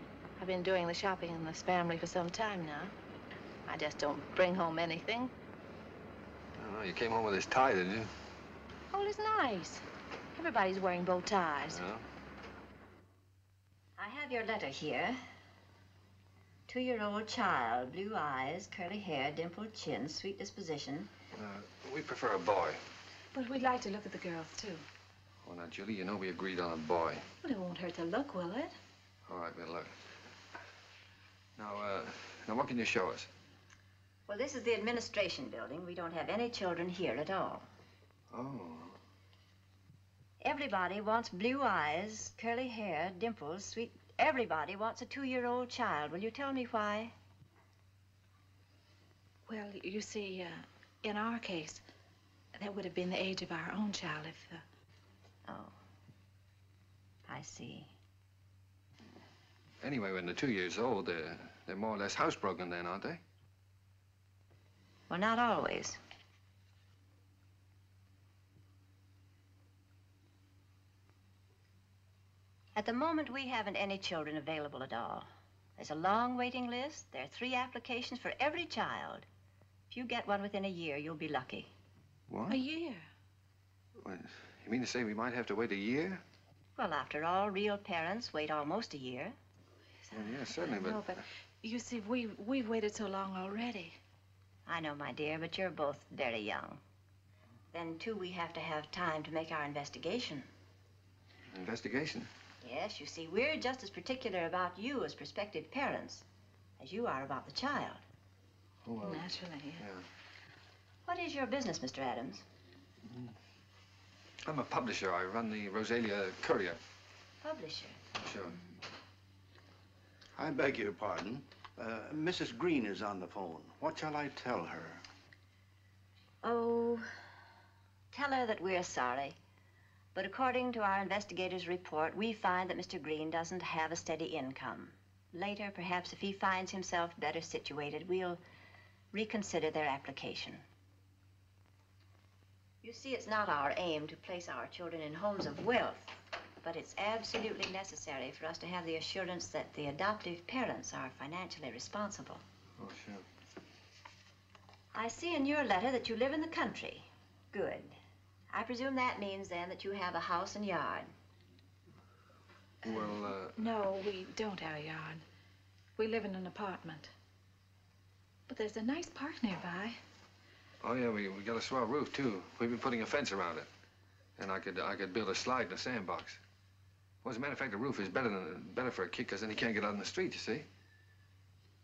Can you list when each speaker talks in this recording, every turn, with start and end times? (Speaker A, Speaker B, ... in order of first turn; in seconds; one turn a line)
Speaker A: 0.4-3.0
Speaker A: 3.7-5.3
Speaker B: 6.6-8.1
Speaker A: 8.9-11.8
Speaker B: 11.7-12.1
Speaker C: 14.0-15.2
Speaker C: 16.7-21.1
Speaker B: 21.4-22.8
Speaker A: 23.3-24.9
Speaker B: 25.4-27.2
Speaker A: 27.4-28.8
Speaker B: 29.3-30.0
Speaker B: 31.6-33.3
Speaker C: 34.3-37.7
Speaker B: 38.3-39.0
Speaker C: 40.4-47.1
Speaker A: 49.5-51.8
Speaker A: 52.6-54.6
Speaker C: 55.5-55.8
Speaker C: 57.3-57.9
Speaker B: 59.8-63.2
Speaker C: 65.1-66.0
Speaker C: 72.8-79.3
Speaker C: 79.9-81.7
Speaker B: 82.3-82.6
Speaker A: 82.5-83.1
Speaker B: 84.0-86.2
Speaker C: 86.8-89.4
Speaker A: 90.0-94.0
Speaker B: 90.1-91.2
Speaker C: 94.7-96.8
Speaker C: 97.7-100.5
Speaker B: 101.5-102.3
Speaker C: 102.6-106.3
Speaker C: 106.8-108.0
Speaker B: 108.8-110.1
Speaker A: 109.0-109.8
Speaker C: 111.0-112.5
Speaker B: 114.5-116.8
Speaker C: 117.4-118.0
Speaker B: 118.2-118.6
Speaker D: 120.4-125.0
Speaker C: 126.4-127.1
Speaker C: 128.1-129.4
Speaker C: 130.2-138.4
Speaker C: 139.1-140.6
Speaker C: 142.8-152.4
Speaker B: 152.8-153.3
Speaker C: 154.9-158.0
Speaker C: 158.5-161.1
Speaker A: 162.8-165.2
Speaker B: 162.8-163.6
Speaker A: 166.0-167.1
Speaker A: 168.5-170.0
Speaker B: 170.8-173.7
Speaker B: 174.4-176.4
Speaker B: 177.2-180.7